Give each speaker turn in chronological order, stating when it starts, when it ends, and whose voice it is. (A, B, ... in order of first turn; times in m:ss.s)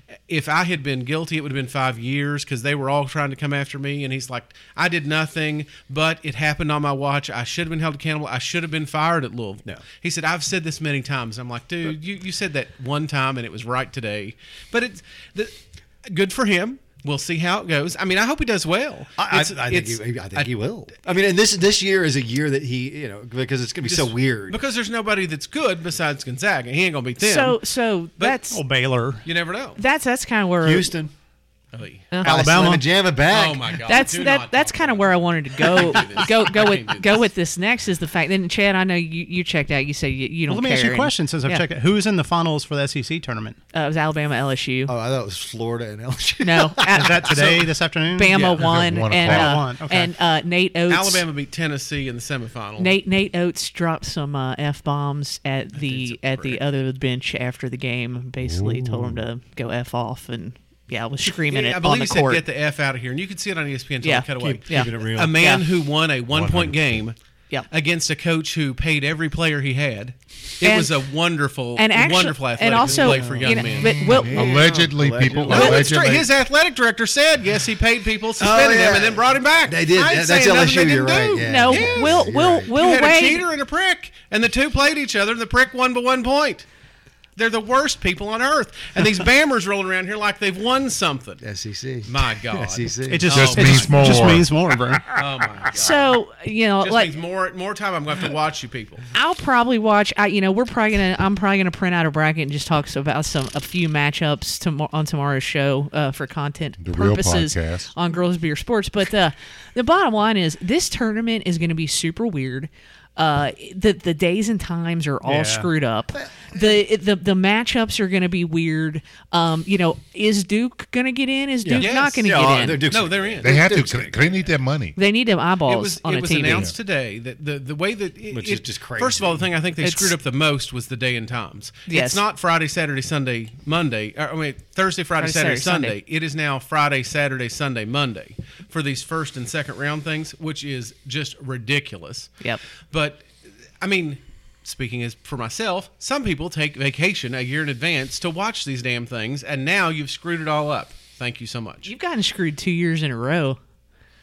0:00.3-0:20.5 A
0:19.2-0:24.6 B
0:23.8-0:27.6 A
0:27.2-0:28.6 C
0:28.5-0:29.3 D
0:29.2-0:29.8 A
0:29.8-0:30.9 C
0:30.6-0:31.1 B
0:31.7-0:32.1 A
0:32.1-0:32.4 C
0:32.2-0:32.9 D
0:32.2-0:33.9 B
0:33.3-0:37.3 A
0:33.9-0:41.7 C
0:40.5-0:43.6 D
0:43.7-0:44.9 C
0:44.9-0:47.6 B
0:46.4-0:47.5 C
0:46.9-0:50.1 D
0:48.1-0:51.2 C
0:48.3-0:48.7 A
0:48.5-0:49.6 E
0:50.9-0:52.9 A
0:52.8-1:02.4 C
0:55.8-0:56.6 A
0:58.4-0:59.2 E
1:01.3-1:07.2 A
1:04.0-1:05.7 C
1:04.4-1:05.4 B
1:06.3-1:07.0 E
1:07.7-1:14.2 A
1:10.6-1:11.0 C
1:11.8-1:14.6 C
1:12.8-1:16.0 B
1:13.7-1:16.3 E
1:15.5-1:26.7 A
1:18.4-1:22.7 B
1:21.4-1:23.5 C
1:27.4-1:31.4 A
1:31.4-1:34.1 B
1:32.0-1:34.2 A
1:33.1-1:35.1 D
1:33.3-1:34.5 E
1:35.1-1:36.2 A
1:35.7-1:37.1 C
1:36.8-1:39.1 A
1:39.1-2:02.8 C
1:46.8-1:47.9 E
1:55.2-1:55.7 D
1:56.1-1:56.7 B
2:01.6-2:04.2 B
2:01.8-2:03.7 A
2:03.4-2:05.0 E
2:05.0-2:06.7 C
2:05.7-2:22.3 A
2:06.4-2:06.7 E
2:08.3-2:09.5 B
2:09.8-2:10.2 C
2:11.9-2:12.2 C
2:15.2-2:16.0 C
2:22.9-2:23.3 A
2:23.8-2:31.9 A
2:31.8-2:33.6 C